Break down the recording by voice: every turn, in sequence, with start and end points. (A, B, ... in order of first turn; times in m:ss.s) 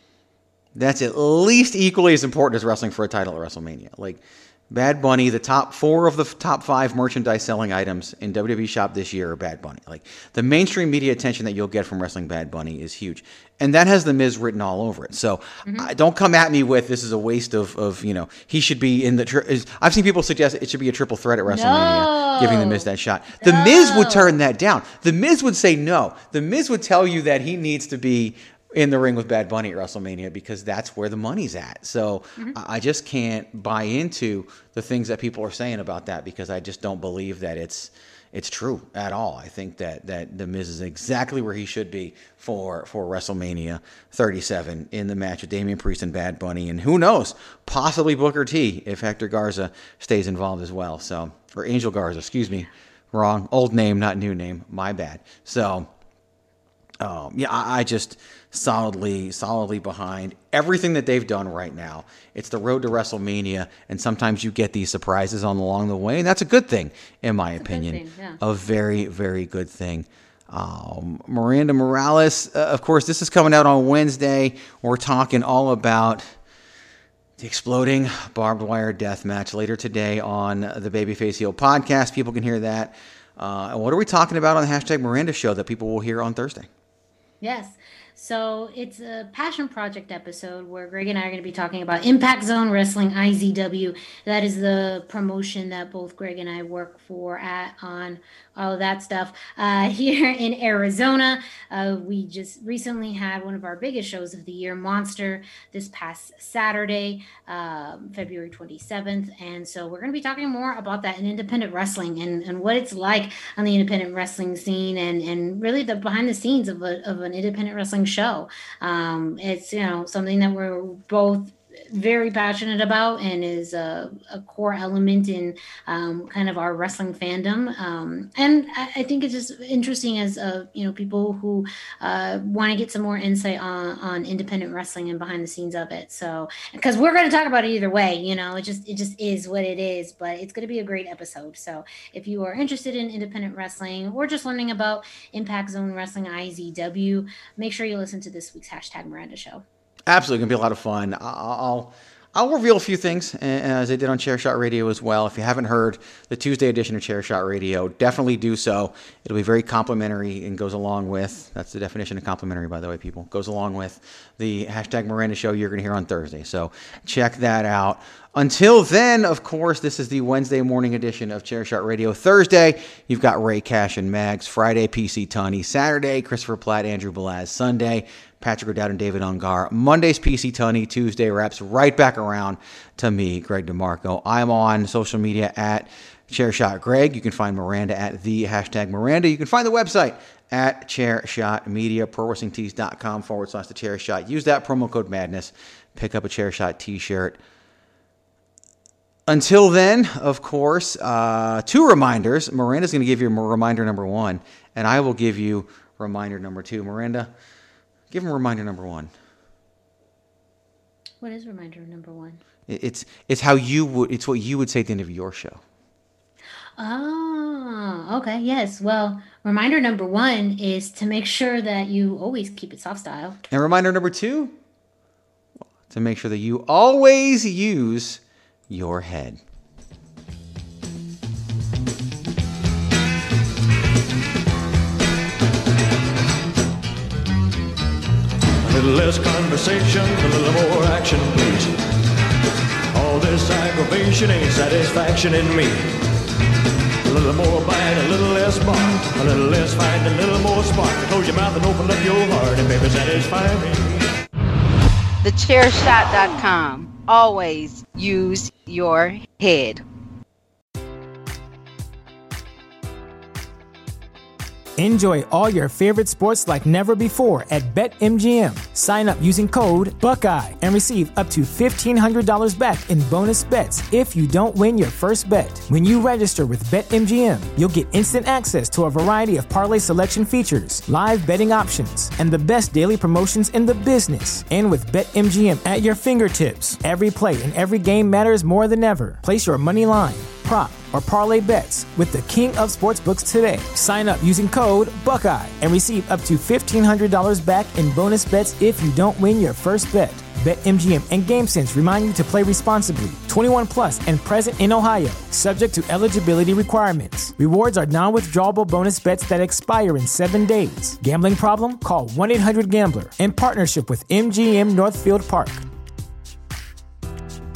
0:00.8-0:55.9 A
0:21.5-0:22.9 B
0:23.4-0:24.4 B
0:57.0-1:16.3 A
1:07.6-1:08.4 B
1:17.4-1:26.7 A
1:27.4-2:29.6 B
2:30.1-3:17.4 A
3:19.3-3:27.3 A
3:28.1-3:29.1 A
3:31.2-3:32.4 B
3:32.7-3:35.6 A
3:36.8-3:43.4 B
3:43.5-3:44.6 A
3:45.9-3:49.4 A
3:58.6-4:01.8 C
4:02.9-4:05.8 C
4:07.1-4:14.0 C
4:15.2-4:19.8 D
4:24.8-5:15.6 E